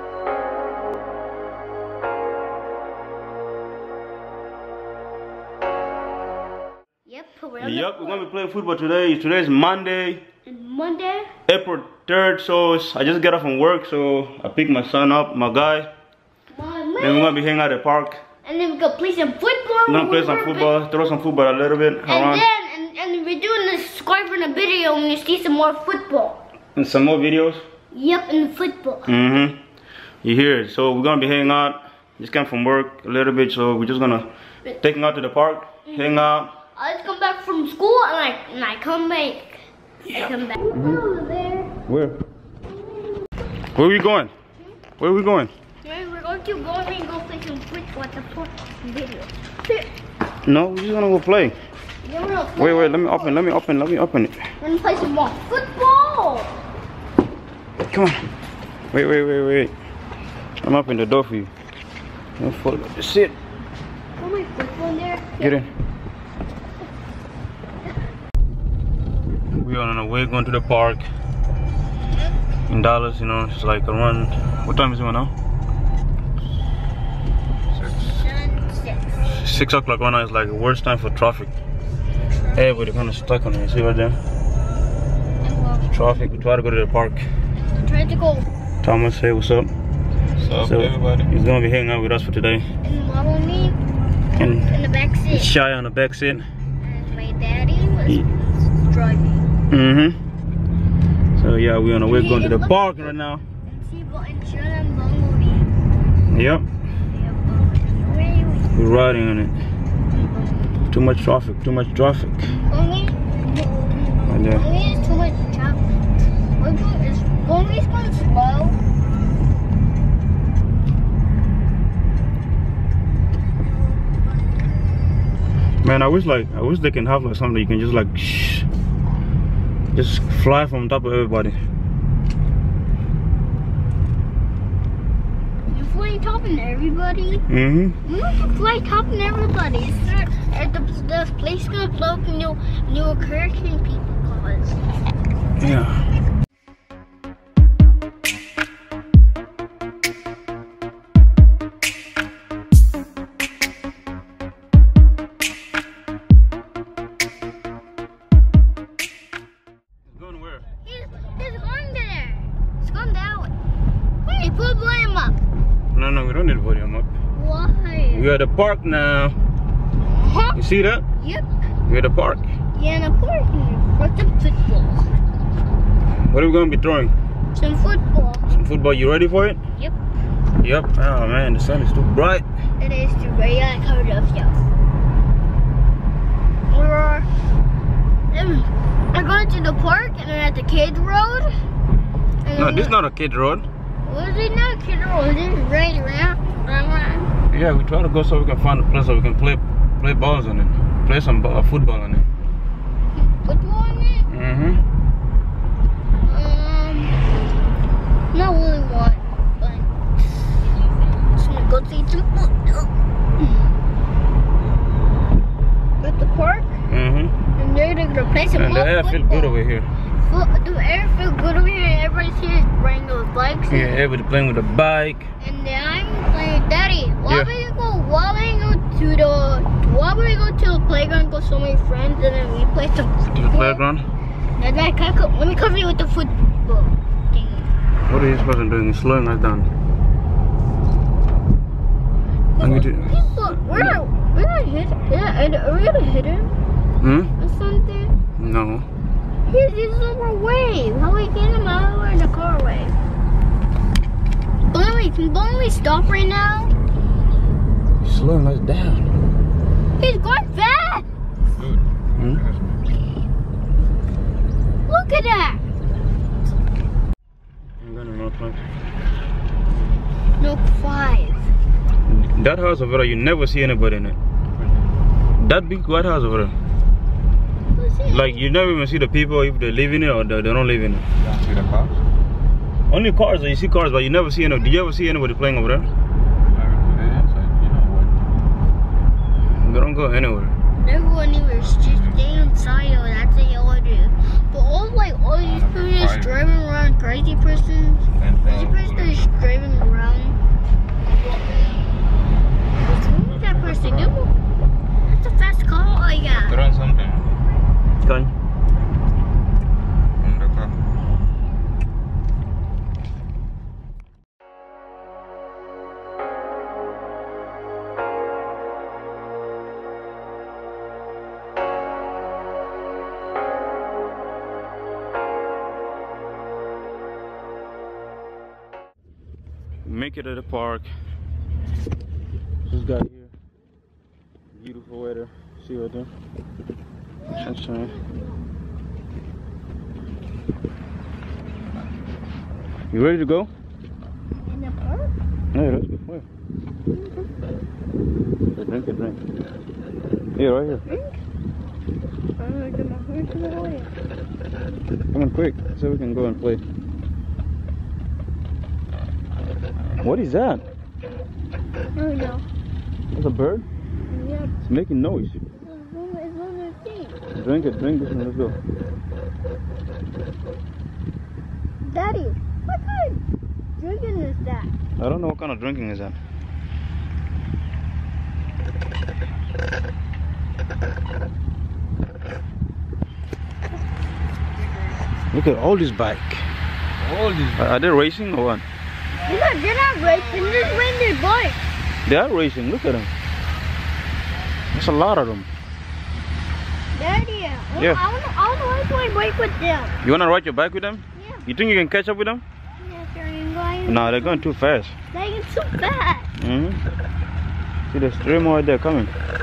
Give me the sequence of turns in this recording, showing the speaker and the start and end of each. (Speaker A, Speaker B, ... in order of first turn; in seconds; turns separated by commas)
Speaker A: 7.0-8.3, Speaker B: 7.6-10.2, Speaker A: 10.5-11.3, Speaker B: 11.5-15.9, Speaker A: 16.5-17.4, Speaker B: 17.0-18.2, Speaker A: 18.4-20.8, Speaker B: 19.9-22.4, Speaker A: 22.1-26.4, Speaker B: 26.8-27.6, Speaker A: 27.9-29.1, Speaker B: 29.1-29.6, Speaker B: 30.2-34.3, Speaker B: 34.8-36.5, Speaker A: 35.9-36.2, Speaker A: 36.7-41.7, Speaker B: 40.1-41.0, Speaker B: 41.9-42.2, Speaker B: 43.7-44.3, Speaker B: 45.0-45.5, Speaker A: 45.8-49.9, Speaker B: 50.5-51.6, Speaker A: 52.0-53.5, Speaker B: 52.6-54.4, Speaker A: 54.6-56.6, Speaker B: 57.9-58.2, Speaker B: 58.9-59.7, Speaker B: 60.6-61.5, Speaker B: 62.4-63.4, Speaker A: 64.2-65.6, Speaker B: 65.4-65.7, Speaker B: 69.5-71.0, Speaker B: 72.7-75.3, Speaker C: 77.8-78.1, Speaker A: 78.0-79.4, Speaker B: 79.3-81.5, Speaker A: 82.3-83.0, Speaker B: 82.5-84.2, Speaker A: 85.4-85.9, Speaker B: 85.9-87.3, Speaker A: 87.6-88.5, Speaker B: 88.8-89.7, Speaker C: 90.4-91.3, Speaker B: 90.6-92.7, Speaker A: 92.8-93.8, Speaker B: 94.4-94.7, Speaker A: 94.5-95.5, Speaker B: 95.3-96.5, Speaker A: 96.8-99.5, Speaker B: 99.7-100.2, Speaker B: 101.3-103.4, Speaker A: 102.1-103.0, Speaker A: 103.7-105.7, Speaker B: 106.3-106.7, Speaker A: 107.1-108.8, Speaker B: 108.8-109.6, Speaker A: 110.1-110.7, Speaker B: 110.9-112.5, Speaker A: 112.7-115.8, Speaker B: 114.2-114.7, Speaker A: 116.6-118.8, Speaker B: 125.8-128.7, Speaker B: 129.9-131.6, Speaker A: 135.7-137.4, Speaker B: 137.5-138.0, Speaker A: 138.0-144.8, Speaker B: 145.6-146.0, Speaker B: 160.1-160.7, Speaker A: 160.8-163.5, Speaker A: 164.2-165.4, Speaker B: 165.9-167.1, Speaker A: 167.3-168.3, Speaker B: 168.1-169.4, Speaker A: 170.1-170.6, Speaker B: 170.6-171.0, Speaker A: 171.2-171.5, Speaker B: 171.9-172.5, Speaker A: 172.7-175.1, Speaker B: 176.3-177.1, Speaker A: 177.5-178.5, Speaker B: 178.5-179.6, Speaker B: 180.6-182.4, Speaker A: 182.8-184.6, Speaker A: 186.7-187.3, Speaker A: 188.3-191.5, Speaker A: 192.4-193.0, Speaker B: 192.6-193.7, Speaker A: 194.0-197.3, Speaker B: 197.5-202.2, Speaker A: 203.2-204.3, Speaker B: 204.3-204.8, Speaker A: 206.2-207.2, Speaker A: 208.3-210.5, Speaker A: 211.2-212.9, Speaker A: 216.0-216.8, Speaker B: 216.9-217.4, Speaker A: 217.6-219.6, Speaker B: 218.6-219.9, Speaker A: 220.2-224.0, Speaker B: 223.7-225.3, Speaker A: 225.4-233.8, Speaker B: 227.2-227.5, Speaker B: 233.3-234.1, Speaker A: 234.6-237.7, Speaker B: 238.1-239.7, Speaker A: 242.6-246.5, Speaker B: 242.6-244.0, Speaker B: 247.0-247.3, Speaker A: 247.4-248.2, Speaker B: 248.4-248.9, Speaker A: 249.5-252.9, Speaker A: 254.7-256.7, Speaker B: 258.0-259.1, Speaker A: 260.0-261.1, Speaker C: 261.5-262.8, Speaker B: 262.2-262.4, Speaker A: 264.9-265.6, Speaker B: 267.8-268.6, Speaker A: 270.4-271.5, Speaker B: 272.1-274.2, Speaker C: 274.6-274.9, Speaker B: 275.4-276.6, Speaker A: 277.7-278.4, Speaker B: 278.1-281.1, Speaker C: 281.2-282.0, Speaker B: 282.9-285.9, Speaker C: 286.5-288.3, Speaker B: 289.6-290.6, Speaker A: 290.8-300.4, Speaker C: 291.8-292.2, Speaker C: 295.4-296.4, Speaker C: 298.1-299.2, Speaker A: 302.8-304.3, Speaker C: 303.4-304.1, Speaker A: 305.1-306.6, Speaker C: 306.4-307.4, Speaker B: 308.0-308.3, Speaker C: 310.2-310.8, Speaker B: 329.9-330.9, Speaker B: 332.7-333.3, Speaker B: 334.5-336.1, Speaker A: 337.2-338.2, Speaker B: 337.4-337.9, Speaker B: 342.9-343.5, Speaker A: 344.4-345.1, Speaker B: 345.5-346.2, Speaker A: 346.9-347.3, Speaker B: 348.5-349.2, Speaker B: 350.4-350.9, Speaker A: 350.9-351.2, Speaker A: 352.4-353.9, Speaker B: 355.1-356.6, Speaker B: 360.0-360.6, Speaker A: 361.9-362.4, Speaker B: 363.1-363.7, Speaker A: 364.1-364.5, Speaker B: 364.6-365.4, Speaker A: 365.6-367.2, Speaker B: 367.3-368.6, Speaker A: 371.8-373.2, Speaker A: 373.8-374.7, Speaker B: 375.0-376.2, Speaker B: 385.3-386.5, Speaker C: 387.1-387.5, Speaker B: 387.5-388.6, Speaker A: 389.2-391.6, Speaker B: 392.1-393.1, Speaker B: 394.7-395.5, Speaker A: 396.9-399.9, Speaker B: 400.0-402.4, Speaker A: 401.1-401.4, Speaker A: 402.8-404.4, Speaker B: 403.9-404.9, Speaker A: 405.1-406.3, Speaker B: 406.4-406.8, Speaker B: 407.9-409.1